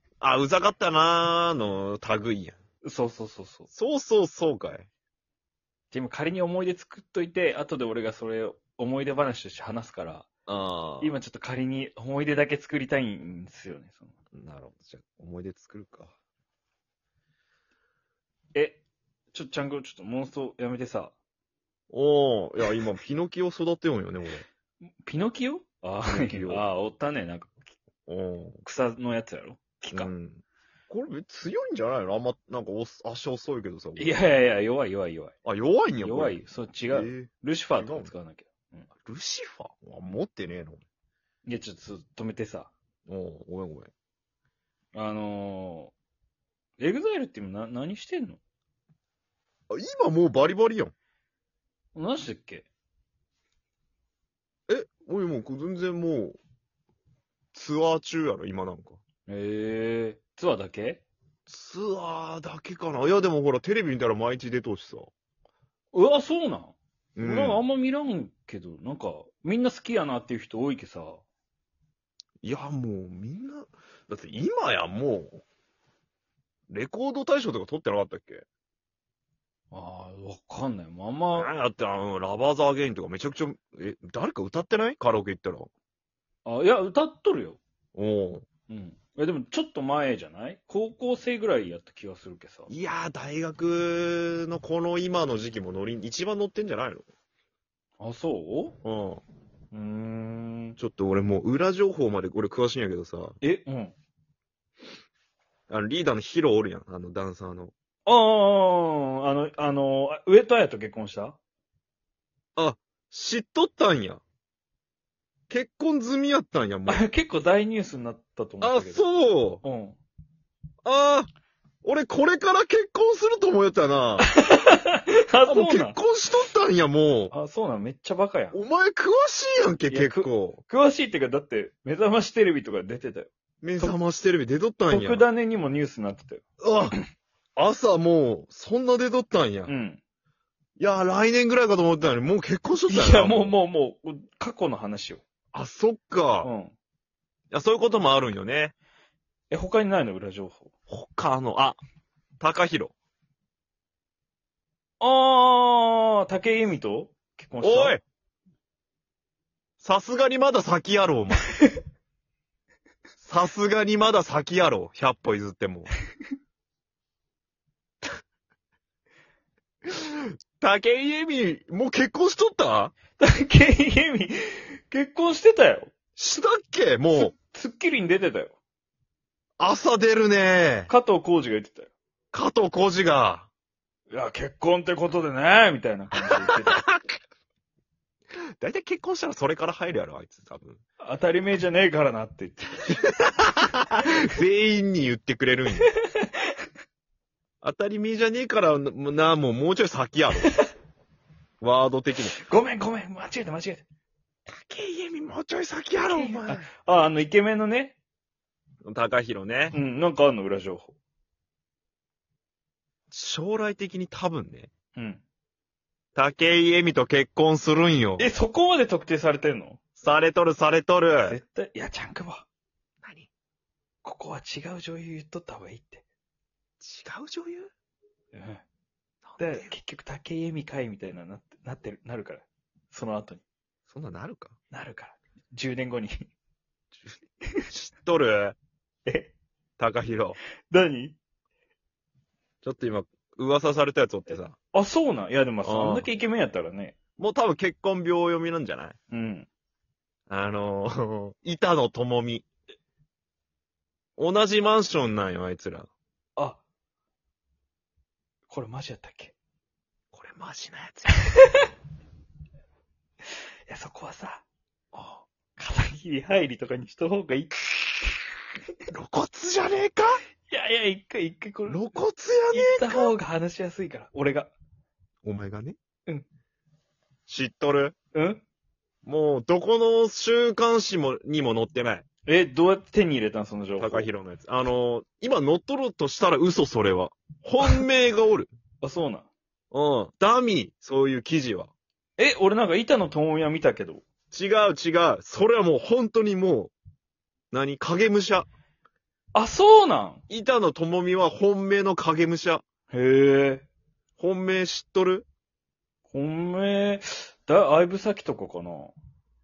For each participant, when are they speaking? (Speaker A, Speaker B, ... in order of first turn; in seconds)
Speaker A: 0.2-2.6, 3.7-4.9, 10.5-11.2, 14.3-16.1, 21.9-24.5, 26.1-26.6, 28.1-28.6, 29.9-34.2, 35.5-36.4, 36.9-38.1, 39.1-40.8, 43.1-43.9, 49.7-50.9, 54.7-56.4, 57.5-59.0, 61.5-65.1, 67.2-67.6, 72.4-75.4, 76.7-78.5, 81.3-85.7, 88.0-88.5, 92.7-97.1, 98.8-99.2, 100.8-103.4, 105.7-107.7, 112.6-114.2, 115.5-117.0, 118.6-119.6, 120.8-121.3, 121.8-124.3, 125.5-127.3, 128.5-130.6, 133.6-135.3, 136.6-136.9, 137.6-139.7, 140.8-143.5, 145.5-146.5, 147.5-148.7, 150.9-151.8, 152.4-152.9, 157.6-158.0, 159.8-161.5, 163.2-165.9, 169.9-172.9, 176.2-177.3, 179.6-180.9, 182.3-183.5, 186.4-187.0, 188.6-190.8, 192.9-195.9, 197.6-200.5, 201.6-202.4, 204.5-206.7, 208.8-209.8, 213.1-214.7, 216.2-218.3, 220.0-221.4, 223.0-223.3, 226.8-227.7, 229.2-229.7, 233.9-234.6, 237.7-238.6, 239.8-240.4, 242.6-244.6, 245.6-246.1, 247.2-249.0, 250.3-252.5, 254.2-255.9, 260.1-261.3, 264.9-265.2, 268.9-270.2, 271.7-273.1, 275.2-275.8, 277.3-277.9, 279.1-282.1, 283.8-288.5, 289.7-291.7, 294.3-296.7, 297.5-298.5, 300.3-302.6, 304.2-305.3
Speaker B: 2.8-3.7, 5.9-10.3, 11.0-14.1, 18.6-18.8, 19.3-21.1, 25.0-27.5, 28.6-30.1, 34.0-35.4, 36.0-38.9, 41.5-42.7, 44.9-45.9, 46.8-48.4, 52.0-52.7, 59.3-61.0, 65.9-71.2, 79.7-81.5, 86.5-87.6, 88.7-92.7, 98.0-98.8, 99.7-100.8, 103.4-104.0, 108.1-111.4, 116.9-119.0, 119.6-120.0, 124.4-126.0, 127.3-128.6, 129.9-134.0, 134.9-137.0, 139.7-140.0, 142.9-145.2, 146.4-146.7, 149.5-150.7, 155.0-158.0, 173.2-175.9, 177.2-178.6, 180.9-181.9, 184.1-186.8, 191.0-193.0, 195.9-196.5, 200.4-200.7, 202.3-203.8, 206.0-208.0, 209.7-210.9, 214.9-215.2, 218.2-219.8, 221.2-222.5, 224.0-226.0, 228.3-228.6, 229.4-233.4, 234.7-236.2, 239.1-239.3, 240.7-241.2, 244.7-247.0, 249.1-249.5, 258.5-259.3, 261.1-261.4, 263.7-264.4, 265.6-268.2, 270.5-271.9, 272.5-274.5, 278.1-278.4, 282.3-284.1, 288.8-289.3, 292.2-294.0, 299.4-300.2, 302.9-303.6, 306.1-308.9